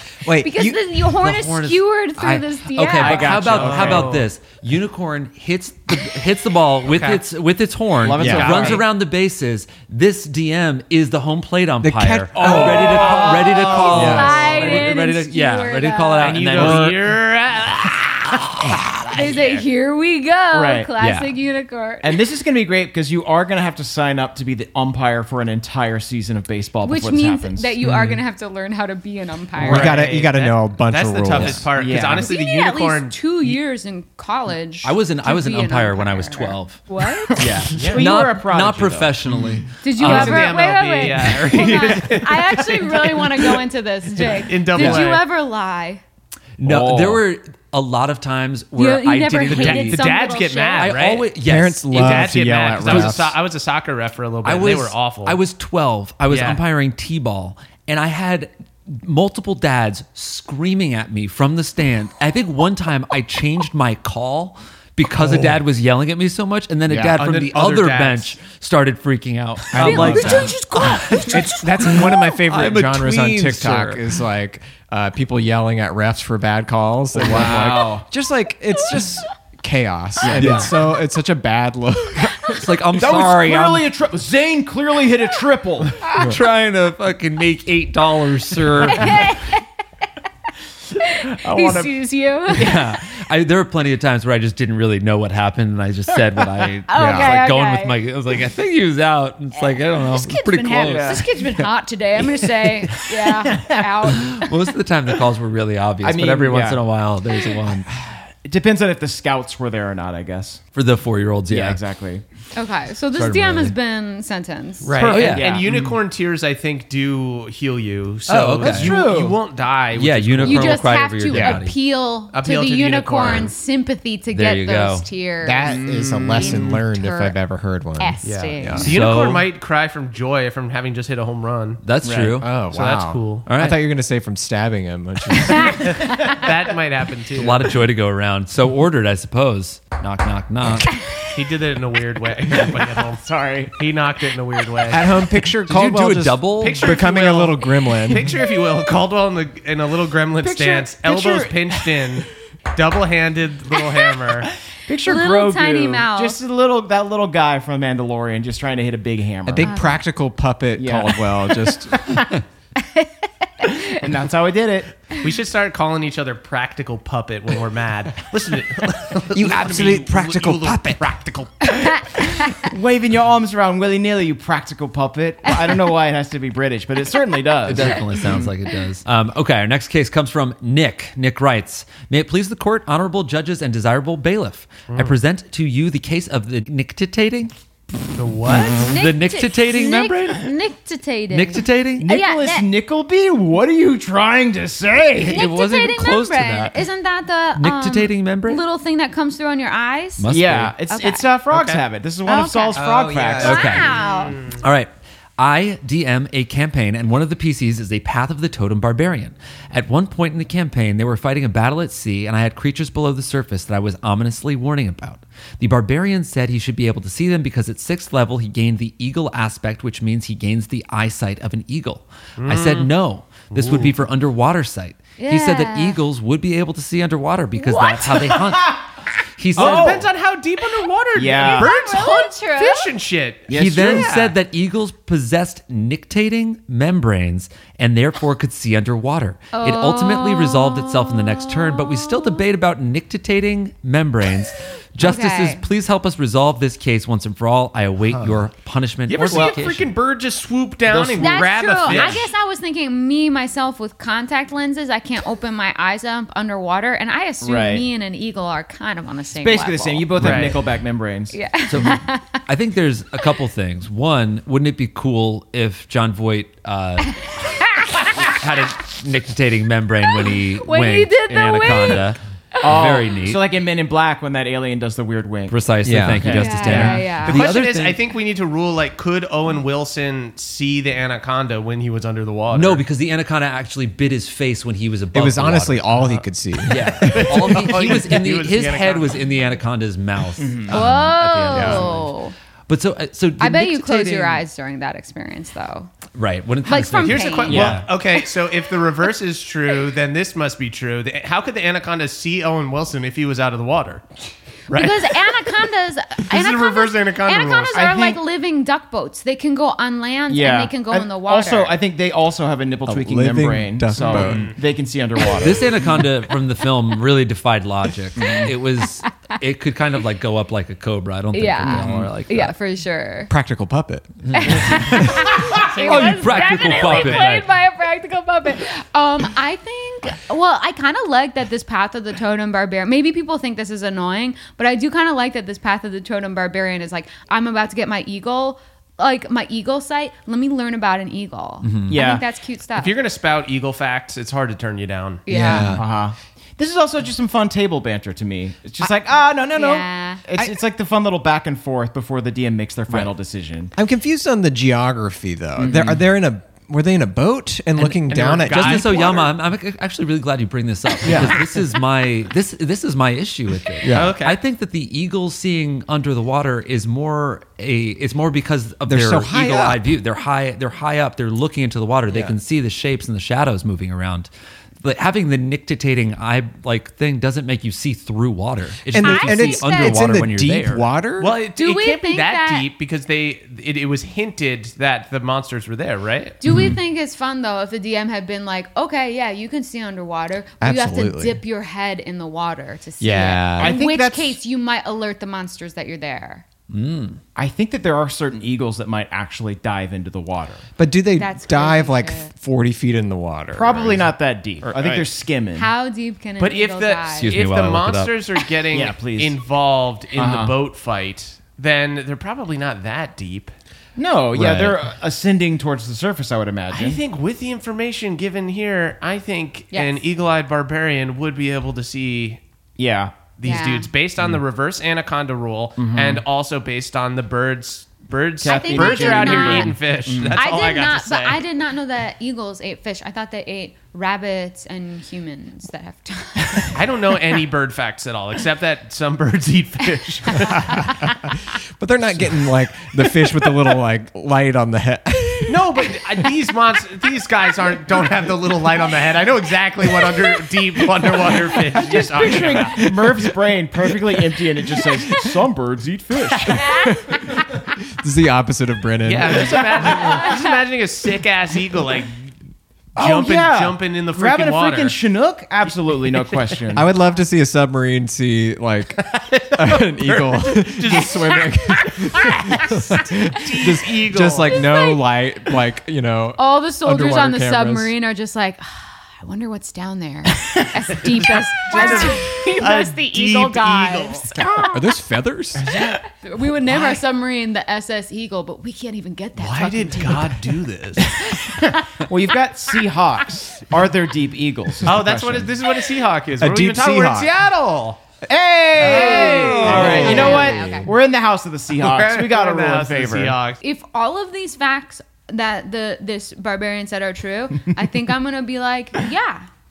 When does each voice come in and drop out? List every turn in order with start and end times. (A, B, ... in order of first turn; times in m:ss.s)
0:00.2-0:00.8 A
0:00.4-0:03.5 B
0:01.2-0:17.0 C
0:03.0-0:04.2 D
0:03.4-0:04.3 E
0:06.9-0:07.2 E
0:08.0-0:08.8 D
0:08.2-0:08.8 A
0:11.8-0:13.0 A
0:12.4-0:14.2 D
0:12.4-0:14.8 E
0:13.6-0:16.4 B
0:13.9-0:14.5 A
0:16.2-0:18.5 E
0:16.6-0:16.9 A
0:19.1-0:22.2 B
0:19.2-0:19.6 E
0:20.5-0:21.0 D
0:22.0-0:27.7 D
0:26.8-0:30.0 B
0:27.8-0:28.2 A
0:29.6-0:31.7 A
0:29.6-0:33.5 E
0:31.3-0:31.6 C
0:31.7-0:32.3 D
0:32.1-0:37.4 B
0:34.8-0:40.6 C
0:37.7-0:39.2 D
0:37.8-0:38.0 E
0:39.8-0:46.0 B
0:40.0-0:43.4 E
0:44.2-0:45.2 E
0:44.8-0:45.0 C
0:46.6-0:50.0 C
0:46.6-0:47.2 D
0:48.8-0:50.9 B
0:49.5-0:51.3 E
0:50.8-0:52.3 C
0:51.4-0:53.4 A
0:51.9-0:55.4 E
0:52.8-0:53.2 C
0:54.4-1:14.0 C
0:56.3-0:56.6 E
1:05.2-1:05.5 A
1:07.1-1:08.4 E
1:09.7-1:10.6 A
1:09.8-1:11.0 D
1:09.9-1:11.3 B
1:11.3-1:22.6 A
1:17.1-1:18.0 D
1:20.2-1:20.7 D
1:20.4-1:20.7 C
1:22.5-1:23.9 C
1:23.0-1:26.0 D
1:26.0-1:29.3 C
1:28.9-1:29.6 B
1:31.0-1:32.9 B
1:31.4-1:31.9 D
1:32.5-1:41.2 C
1:36.9-1:38.0 B
1:37.0-1:37.3 A
1:39.6-1:44.4 B
1:40.8-1:41.2 D
1:43.2-1:44.2 D
1:44.1-1:47.9 C
1:46.0-1:46.8 D
1:48.4-1:50.6 D
1:50.7-1:51.8 C
1:51.5-1:52.2 D
1:52.5-1:54.9 B
1:53.2-1:53.7 C
1:54.8-2:00.9 E
1:54.9-1:56.0 D
1:55.0-1:55.6 C
1:58.3-1:58.9 C
1:58.6-1:59.4 D
1:59.9-2:01.7 C
2:00.4-2:07.4 B
2:02.3-2:03.5 E
2:04.3-2:05.1 C
2:05.4-2:09.0 A
2:05.6-2:06.8 D
2:08.0-2:08.9 B
2:08.2-2:11.8 E
2:08.8-2:09.5 C
2:11.8-2:12.6 C
2:12.0-2:12.4 D
2:12.4-2:16.1 A
2:12.7-2:13.5 E
2:13.4-2:13.8 C
2:15.8-2:17.7 E
2:17.3-2:21.0 C
2:21.3-2:25.1 E
2:23.2-2:23.8 D
2:24.9-2:28.3 A
2:25.6-2:26.9 C
2:26.6-2:34.5 E
2:30.4-2:32.0 D
2:34.8-2:39.8 D
2:35.0-2:36.4 B
2:39.4-2:42.1 A
2:39.6-2:40.0 B
2:40.7-2:42.3 D
2:42.8-2:43.1 B
2:43.6-2:44.0 B
2:43.9-2:44.9 D
2:45.2-2:52.0 E
2:49.3-2:51.2 A
2:51.7-2:52.7 B
2:52.6-2:58.4 D
2:57.6-3:07.5 C
3:04.9-3:05.1 E
3:08.2-3:08.9 E
3:08.4-3:10.5 C
3:08.8-3:12.6 B
3:11.3-3:12.1 C
3:12.0-3:15.4 D
3:15.2-3:16.8 C
3:15.3-3:20.3 B
3:17.6-3:18.6 C
3:20.2-3:20.7 C
3:20.3-3:23.7 D
3:20.9-3:21.3 B
3:21.5-3:21.8 E
3:22.2-3:22.8 B
3:22.8-3:23.4 E
3:23.2-3:23.9 C
3:23.4-3:24.4 B
3:24.2-3:24.6 E
3:24.6-3:48.8 C
3:42.4-3:42.9 E
3:43.5-3:43.9 E
3:45.2-3:46.0 B
3:47.6-3:48.3 B
3:49.4-3:50.1 C
3:49.6-3:50.1 D
3:49.6-3:54.3 E
3:51.1-3:51.7 D
3:51.4-3:52.9 B
3:53.5-3:54.1 D
3:53.5-4:09.9 C
3:59.5-4:02.4 B
4:05.0-4:05.6 B
4:09.1-4:12.3 E
4:10.9-4:12.2 D
4:11.2-4:20.2 B
4:17.4-4:17.9 D
4:19.3-4:21.4 D
4:20.2-4:20.5 C
4:20.2-4:20.6 E
4:21.3-4:22.4 B
4:21.7-4:27.4 C
4:27.6-4:28.1 B
4:28.2-4:33.4 C
4:30.1-4:32.9 B
4:32.6-4:37.0 D
4:35.5-4:38.0 C
4:35.8-4:36.9 A
4:36.3-4:37.5 B
4:36.7-4:42.8 E
4:42.5-4:52.1 C
4:45.1-4:47.6 A
4:47.0-4:49.2 E
4:50.4-4:50.8 D
4:50.7-4:52.3 B
4:51.5-4:51.9 A
4:52.7-4:54.4 C
4:53.4-4:55.9 B
4:56.1-4:57.9 C
4:56.6-4:57.7 B
4:57.0-5:04.0 E
4:57.5-4:57.8 D
5:04.7-5:05.5 E
5:04.7-5:11.8 B
5:06.2-5:07.9 E
5:07.7-5:08.2 D
5:10.3-5:15.8 D
5:12.8-5:14.5 A
5:14.0-5:14.5 E
5:15.4-5:22.5 C
5:18.2-5:18.5 D
5:21.3-5:23.3 B
5:21.7-5:22.1 A
5:23.3-5:25.3 A
5:24.2-5:27.5 C
5:24.3-5:43.0 B
5:25.5-5:27.2 E
5:41.6-5:42.0 C
5:41.9-5:42.2 D
5:42.7-5:45.2 E
5:45.2-5:45.8 B
5:45.3-5:45.8 A
5:45.7-5:53.7 D
5:49.5-5:50.2 B
5:53.8-5:59.2 A
5:55.6-5:56.0 D
5:55.7-5:55.9 C
5:57.8-6:14.3 C
5:58.0-5:59.3 E
6:01.0-6:01.4 A
6:03.8-6:04.2 A
6:03.9-6:04.4 E
6:08.9-6:09.9 A
6:12.1-6:12.3 A
6:14.8-6:20.9 C
6:18.9-6:21.4 A
6:19.0-6:20.1 B
6:21.2-6:26.4 E
6:21.6-6:22.7 B
6:26.4-6:36.4 B
6:26.5-6:26.8 C
6:30.6-6:31.4 A
6:33.0-6:33.8 A
6:33.6-6:34.4 D
6:36.7-6:37.2 C
6:37.3-6:40.6 D
6:40.8-6:44.1 A
6:41.2-6:42.3 B
6:43.5-6:45.7 D
6:44.8-6:45.0 E
6:45.5-6:47.4 B
6:46.4-6:53.5 E
6:47.2-6:48.2 C
6:48.7-6:49.4 D
6:50.1-6:50.6 D
6:54.0-6:57.0 D
6:54.3-6:54.8 C
6:56.7-7:02.4 E
6:59.7-7:00.0 B
7:02.8-7:03.2 D
7:03.4-7:11.4 E
7:03.4-7:03.9 B
7:05.8-7:06.2 D
7:08.4-7:10.4 D
7:08.4-7:09.8 B
7:10.3-7:16.7 B
7:16.7-7:20.9 E
7:21.0-7:21.3 A
7:21.8-7:25.9 A
7:25.5-7:32.8 E
7:31.7-7:36.9 D
7:31.9-7:33.3 A
7:36.6-7:36.9 B
7:36.9-7:37.4 A
7:38.0-7:40.0 A
7:39.0-7:42.3 E
7:43.0-7:45.0 E
7:43.0-7:46.9 D
7:46.1-7:46.5 E
7:46.7-7:57.9 A
7:49.0-7:54.7 E
7:54.5-7:55.0 B
7:56.4-8:04.7 B
8:01.7-8:04.6 E
8:04.7-8:05.7 A
8:06.1-8:10.4 B
8:09.4-8:11.2 E
8:11.3-8:12.1 B
8:11.6-8:15.6 D
8:14.8-8:18.0 E
8:16.4-8:17.3 A
8:18.3-8:23.4 D
8:18.8-8:20.5 E
8:18.8-8:20.9 B
8:19.6-8:20.8 A
8:19.8-8:20.3 C
8:21.8-8:23.6 E
8:23.6-8:29.5 B